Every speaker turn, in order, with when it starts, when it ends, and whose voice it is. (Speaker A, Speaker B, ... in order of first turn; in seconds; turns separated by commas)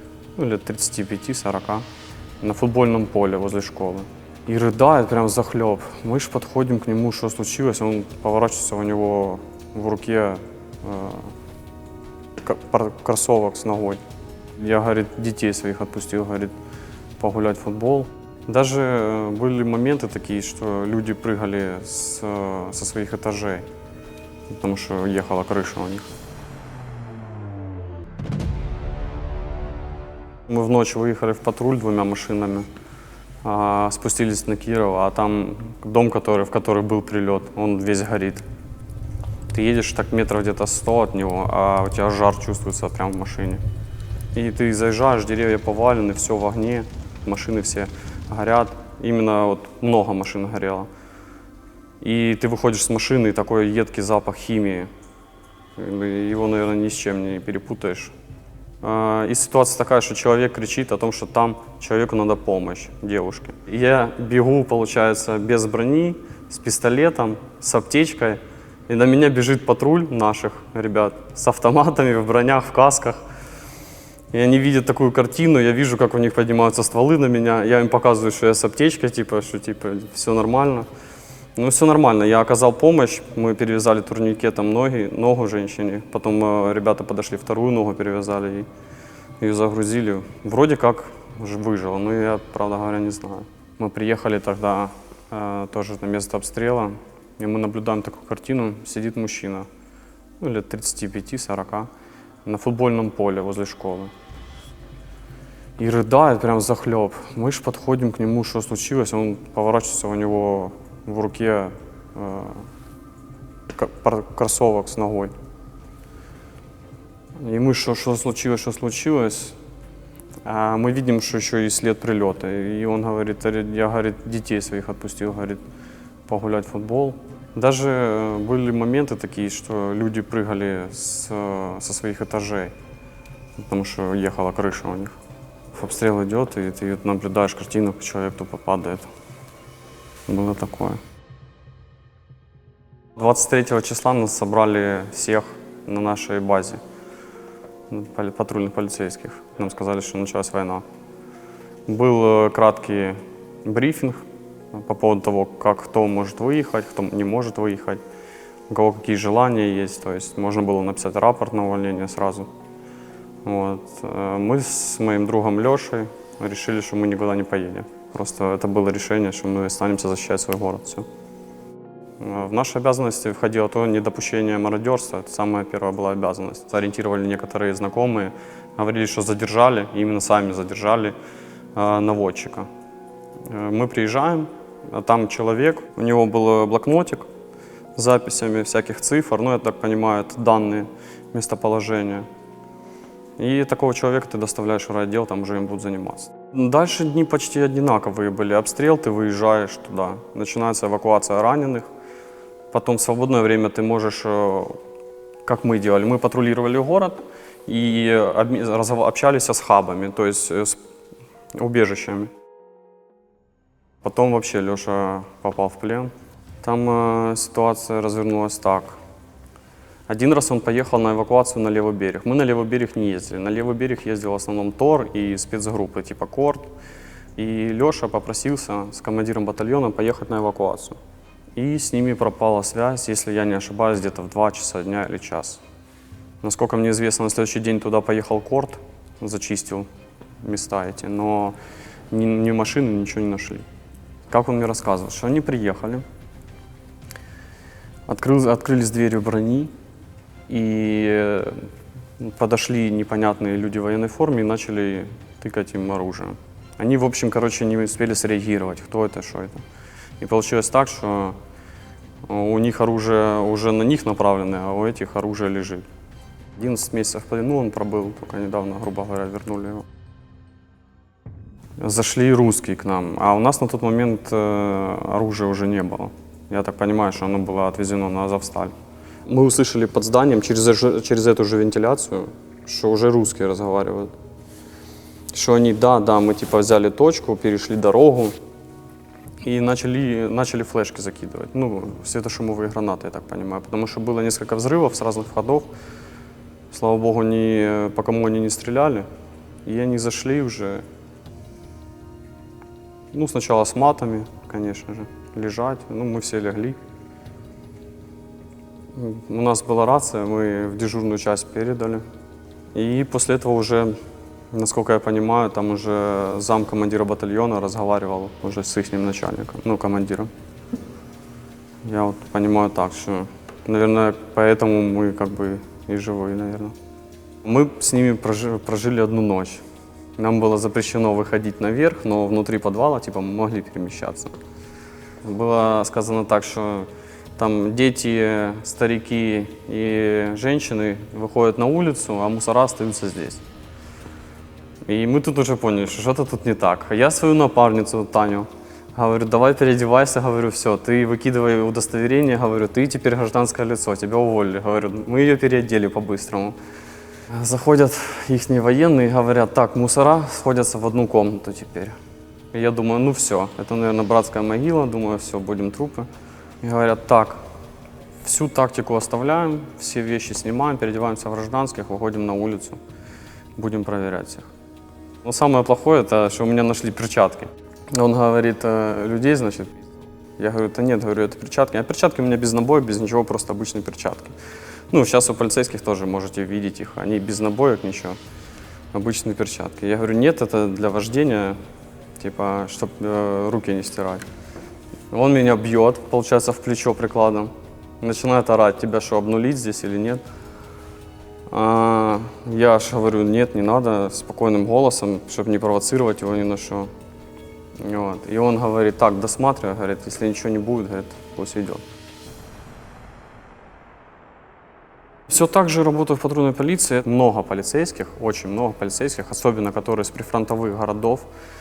Speaker A: 0.4-1.9, Speaker A: 2.4-11.3, Speaker A: 12.4-14.0, Speaker A: 14.6-16.5, Speaker A: 17.2-23.7, Speaker A: 24.5-26.1, Speaker A: 30.5-32.7, Speaker A: 33.4-38.4, Speaker A: 39.5-43.6, Speaker A: 44.3-50.9, Speaker A: 52.0-54.9, Speaker A: 55.8-58.1, Speaker A: 58.8-73.2, Speaker A: 74.3-80.9, Speaker A: 81.6-88.7, Speaker A: 89.4-99.7, Speaker A: 100.4-101.9, Speaker A: 102.5-104.1, Speaker A: 105.8-112.7, Speaker A: 113.7-115.3, Speaker A: 117.4-119.6, Speaker A: 120.5-125.6, Speaker A: 126.3-132.7, Speaker A: 133.6-135.2, Speaker A: 135.7-139.1, Speaker A: 140.3-141.0, Speaker A: 143.2-146.8, Speaker A: 147.9-150.8, Speaker A: 151.9-158.0, Speaker A: 158.7-162.5, Speaker A: 163.4-171.1, Speaker A: 172.2-181.2, Speaker A: 181.8-182.7, Speaker A: 183.5-187.3, Speaker A: 187.9-192.3, Speaker A: 193.4-201.9, Speaker A: 202.7-204.8, Speaker A: 205.4-210.8, Speaker A: 211.6-212.3, Speaker A: 214.0-219.0, Speaker A: 220.1-226.7, Speaker A: 227.4-231.0, Speaker A: 231.6-235.6, Speaker A: 236.4-239.9, Speaker A: 240.4-241.6, Speaker A: 242.1-243.7, Speaker A: 244.3-246.0, Speaker A: 248.1-249.7, Speaker A: 250.5-251.7, Speaker A: 252.2-259.6, Speaker A: 260.2-261.4, Speaker A: 262.2-265.9, Speaker A: 266.6-269.9, Speaker A: 271.8-278.7, Speaker A: 279.3-284.1, Speaker A: 285.3-288.4, Speaker A: 289.4-295.7, Speaker A: 296.7-299.1, Speaker A: 299.6-300.8, Speaker A: 303.1-306.8, Speaker A: 308.9-312.0, Speaker A: 312.7-314.0, Speaker A: 314.5-320.3, Speaker A: 321.8-326.8, Speaker A: 327.4-329.6, Speaker A: 330.2-334.4, Speaker A: 335.2-343.4, Speaker A: 344.9-356.6, Speaker A: 357.3-362.0, Speaker A: 362.5-366.1, Speaker A: 366.6-367.4, Speaker A: 368.2-372.8, Speaker A: 373.6-374.5, Speaker A: 375.2-384.4, Speaker A: 384.9-388.2, Speaker A: 388.9-391.6, Speaker A: 392.2-394.3, Speaker A: 395.1-400.2, Speaker A: 401.5-406.9, Speaker A: 407.8-411.8, Speaker A: 415.3-421.3